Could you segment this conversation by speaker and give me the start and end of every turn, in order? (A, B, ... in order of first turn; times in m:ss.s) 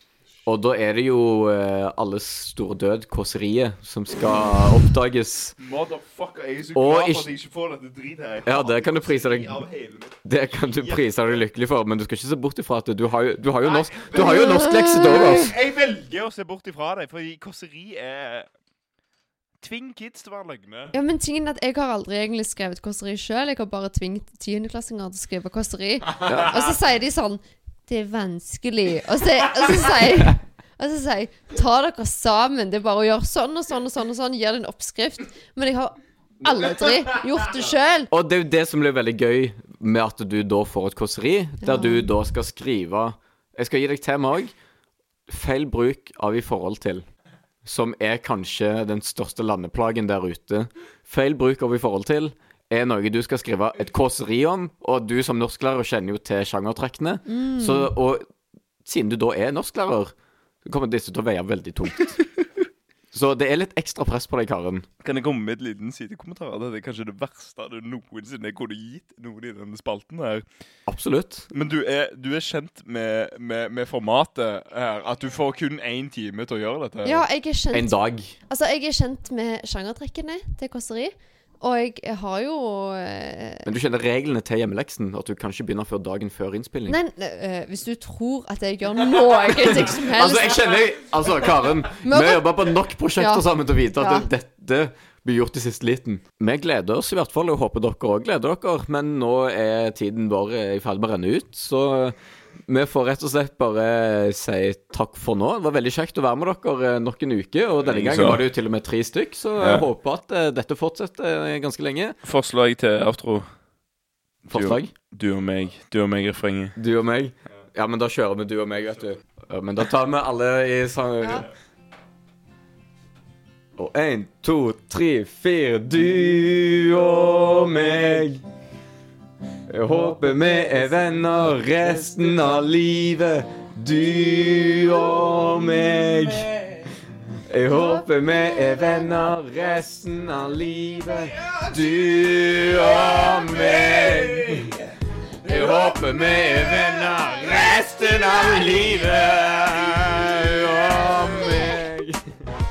0:00.4-0:05.6 A
0:05.6-0:10.2 B
0:06.7-0:07.3 A
0:08.4-0:09.6 A
0:10.2-0:15.6 A
0:10.7-0:11.1 B
0:13.6-0:18.5 B
0:14.1-0:15.5 C
0:19.6-0:20.9 B
0:20.9-0:38.1 C
0:26.2-0:26.6 A
0:38.1-0:44.5 A
0:41.6-0:42.1 C
0:45.3-0:47.0 A
0:47.6-0:58.3 A
0:57.3-0:57.9 C
0:58.8-1:00.1 A
1:00.6-1:02.2 A
1:03.1-1:04.9 A
1:05.0-1:10.4 B
1:10.9-1:11.5 A
1:11.5-1:17.2 B
1:17.0-1:18.0 C
1:17.7-1:18.4 A
1:18.5-1:23.6 C
1:23.6-1:27.0 A
1:26.9-1:30.8 C
1:29.8-1:42.1 A
1:32.0-1:32.6 C
1:33.2-1:34.3 C
1:42.7-1:52.2 A
1:47.8-1:48.4 B
1:49.6-1:49.8 B
1:52.2-1:53.4 B
1:54.4-1:56.8 B
1:54.5-1:54.9 A
1:56.8-2:01.5 A
2:01.2-2:01.4 C
2:03.8-2:08.4 A
2:09.7-2:16.7 A
2:17.5-2:24.8 A
2:23.0-2:24.8 B
2:25.4-2:32.2 A